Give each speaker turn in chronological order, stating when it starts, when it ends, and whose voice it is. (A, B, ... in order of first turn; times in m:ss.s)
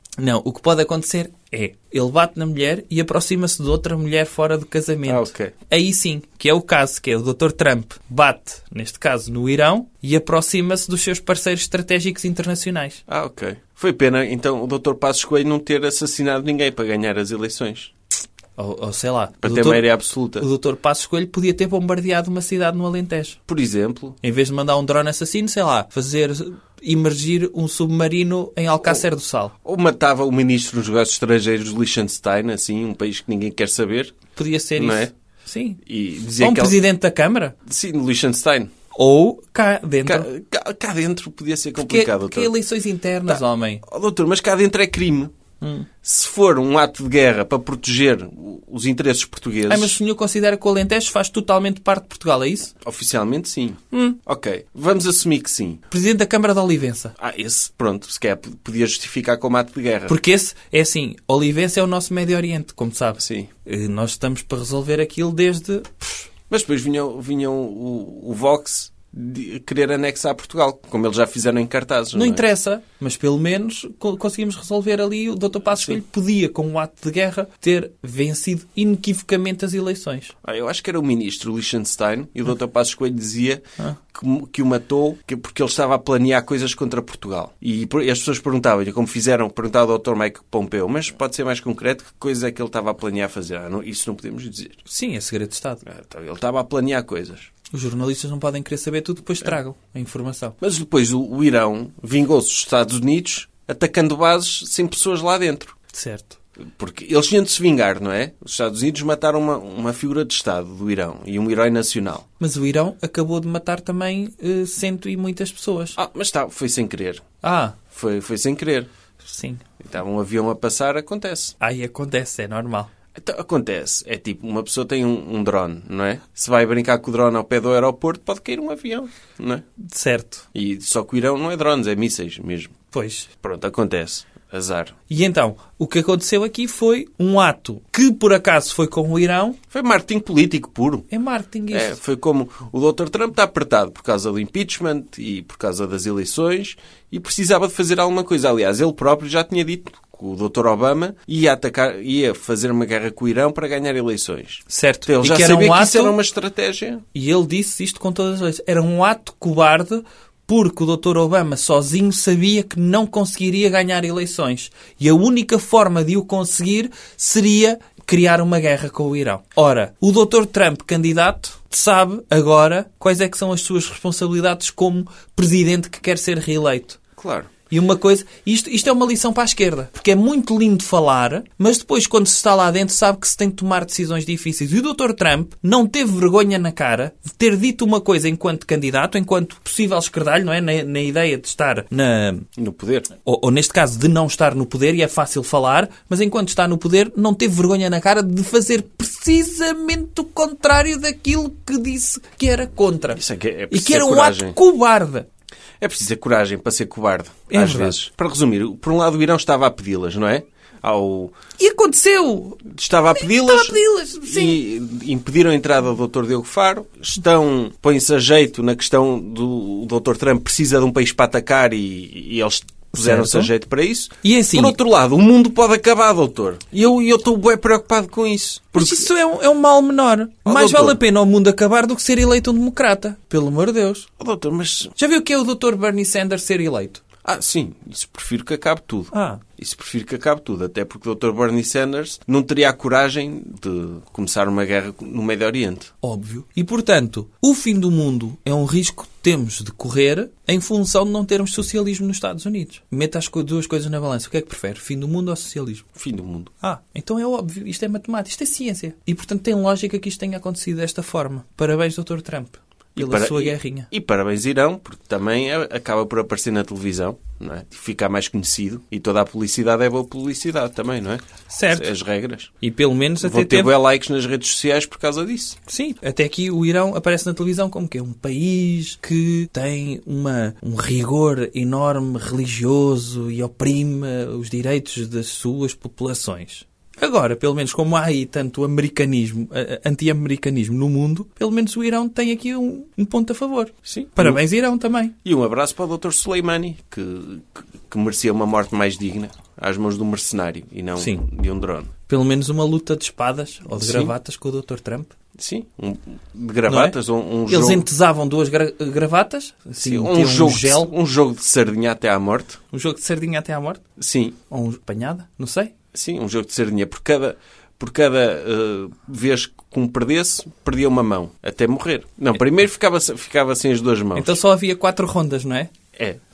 0:00.2-0:13.0 A
0:05.1-0:05.5 B
0:13.1-0:17.9 B
0:18.6-0:23.4 A
0:19.4-0:20.5 B
0:23.5-0:24.2 B
0:24.2-0:29.5 A
0:29.6-0:34.2 B
0:34.4-0:35.8 A
0:34.8-0:35.1 B
0:35.8-0:36.8 B
0:36.4-0:37.6 A
0:37.7-0:38.7 B
0:38.9-0:40.3 A
0:40.0-0:42.5 B
0:41.8-0:43.8 A
0:43.3-0:45.3 B
0:45.6-0:45.9 A
0:46.0-0:50.0 B
0:49.7-0:52.7 A
0:52.8-0:55.9 B
0:55.9-0:57.1 A
0:57.2-1:00.2 B
1:00.1-1:06.3 A
1:03.2-1:03.5 B
1:06.5-1:12.4 B
1:12.1-1:20.3 A
1:20.4-1:34.8 B
1:34.9-1:35.8 A
1:35.9-1:37.5 B
1:37.7-1:40.6 A
1:40.6-1:45.8 B
1:45.9-1:46.4 A
1:46.7-1:52.2 B
1:52.4-1:56.0 A
1:56.0-1:57.2 B
1:57.4-1:57.8 A
1:57.9-1:58.9 B
1:59.2-1:59.6 A
1:59.8-2:01.6 B
2:01.6-2:02.9 A
2:03.1-2:09.6 B
2:09.8-2:10.4 A
2:10.5-2:12.8 B
2:12.9-2:13.3 A
2:13.4-2:15.0 B
2:15.1-2:19.6 A
2:19.7-2:21.1 B
2:21.1-2:22.0 A
2:21.7-2:37.0 B
2:34.7-2:36.2 A
2:37.1-2:57.0 A
2:57.2-2:57.5 B
2:57.7-3:12.5 A
3:12.6-3:13.1 B
3:13.2-3:25.3 A
3:23.2-3:24.6 B
3:25.8-3:31.3 B
3:27.5-3:28.0 A
3:31.6-3:34.6 A
3:32.7-3:49.1 B
3:42.9-3:43.5 A
3:44.2-3:44.8 A
3:48.8-3:54.1 A
3:50.4-3:51.0 B
3:54.2-3:54.9 B
3:55.0-3:57.0 A
3:57.2-4:05.9 B
3:59.1-3:59.4 A
4:06.0-4:15.9 A
4:16.0-4:16.5 B
4:16.6-4:23.9 A
4:23.0-4:32.5 B
4:31.5-4:31.9 A
4:32.6-4:33.7 A
4:33.2-4:35.6 B
4:35.7-4:55.1 A
4:53.8-4:54.4 B
4:55.2-5:01.9 B
5:01.0-5:01.2 A
5:02.1-5:05.1 A
5:03.8-5:04.1 B
5:05.4-5:07.8 B
5:06.7-5:07.0 A
5:07.5-5:10.9 A
5:09.8-5:12.6 B
5:12.7-5:13.8 A
5:14.0-5:14.4 B
5:14.5-5:15.7 A
5:15.9-5:24.4 B
5:24.2-5:25.7 A